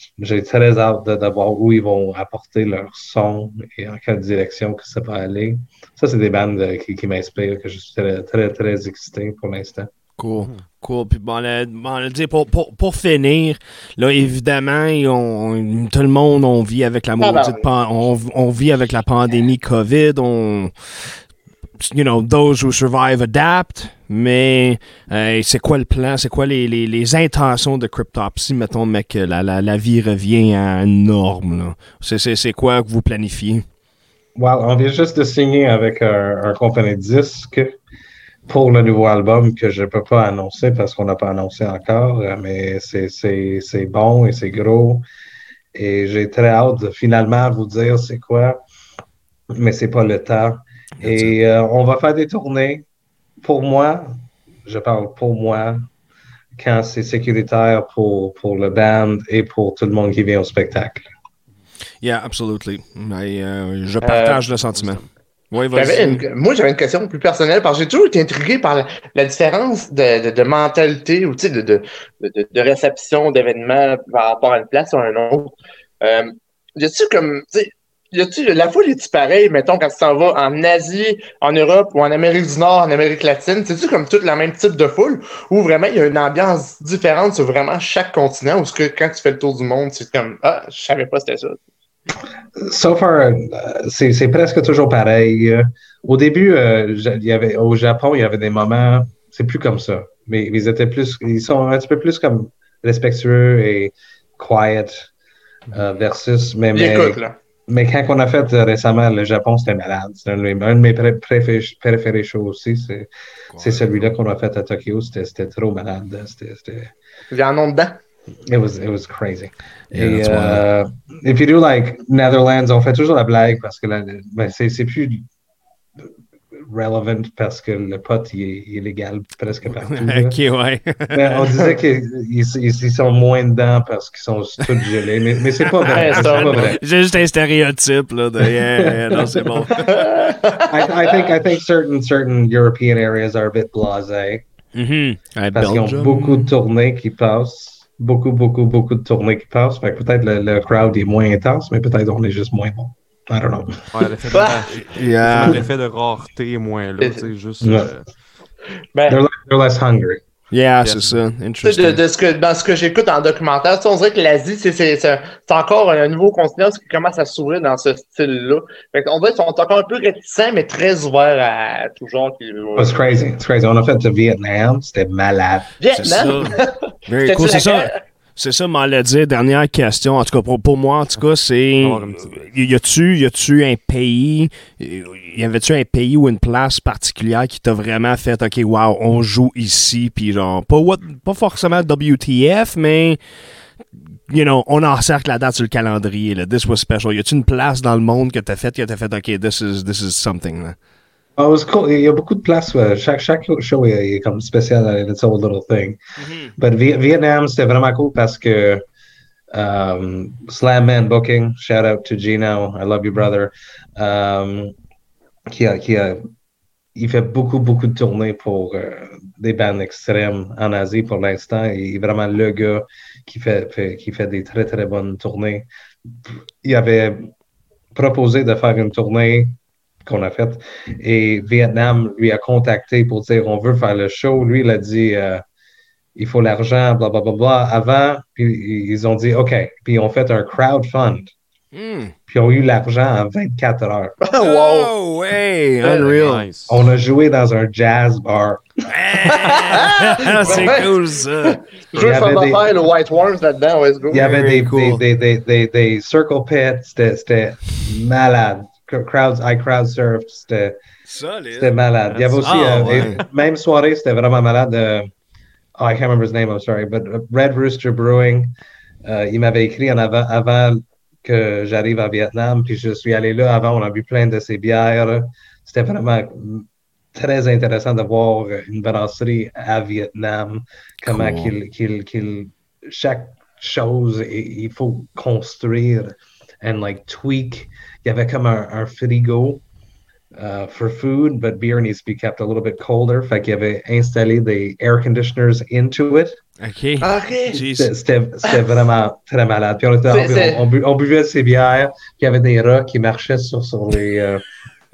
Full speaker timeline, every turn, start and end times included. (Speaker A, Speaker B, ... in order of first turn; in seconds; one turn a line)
Speaker A: 0.2-9.9
Speaker B: 10.2-21.2
Speaker C: 17.2-17.7
Speaker B: 21.8-33.7
Speaker A: 34.4-37.8
Speaker A: 38.5-45.0
Speaker A: 45.8-48.6
Speaker A: 49.5-52.8
Speaker B: 51.0-51.3
Speaker A: 53.4-55.9
Speaker A: 56.6-61.0
Speaker B: 62.0-66.3
Speaker C: 64.0-64.4
Speaker D: 64.7-65.1
Speaker C: 65.7-91.6
Speaker A: 92.6-105.1
Speaker A: 105.7-116.9
Speaker C: 106.7-107.4
Speaker B: 113.5-114.0
Speaker C: 117.3-118.0
Speaker A: 118.5-125.3
Speaker B: 119.9-120.7
Speaker A: 126.7-130.4
Speaker B: 129.7-131.5
Speaker A: 131.1-136.8
Speaker B: 135.8-140.2
Speaker C: 135.8-136.7
Speaker A: 138.8-139.5
Speaker C: 139.7-141.3
Speaker A: 140.7-144.4
Speaker B: 144.7-146.5
Speaker A: 145.5-153.8
Speaker D: 153.9-158.1
Speaker C: 154.3-154.7
Speaker B: 154.4-155.7
Speaker C: 157.0-157.3
Speaker A: 157.6-157.9
Speaker C: 158.9-159.2
Speaker A: 159.1-160.2
Speaker B: 160.5-162.0
Speaker D: 160.8-161.2
Speaker C: 161.6-173.2
Speaker A: 172.8-175.7
Speaker C: 175.8-178.0
Speaker B: 175.9-193.2
Speaker D: 181.8-182.3
Speaker B: 194.3-200.8
Speaker A: 201.4-206.0
Speaker B: 206.2-206.6
Speaker A: 206.6-208.8
Speaker A: 209.5-214.8
Speaker A: 215.5-216.3
Speaker A: 216.9-227.3
Speaker A: 227.9-235.4
Speaker A: 236.2-241.3
Speaker B: 241.7-242.2
Speaker A: 242.3-244.2
Speaker C: 244.2-244.9
Speaker B: 244.3-246.5
Speaker A: 245.8-246.1
Speaker D: 245.9-246.8
Speaker A: 246.7-248.7
Speaker B: 248.9-251.6
Speaker C: 249.3-254.3
Speaker A: 251.9-252.8
Speaker A: 254.1-260.8
Speaker B: 254.1-255.0
Speaker B: 261.1-261.7
Speaker A: 261.5-265.1
Speaker D: 262.1-263.2
Speaker B: 262.4-263.2
Speaker A: 265.8-289.6
Speaker B: 281.0-281.5
Speaker A: 290.4-296.4
Speaker B: 296.6-297.9
Speaker C: 297.0-297.6
Speaker A: 297.6-304.4
Speaker C: 300.1-300.7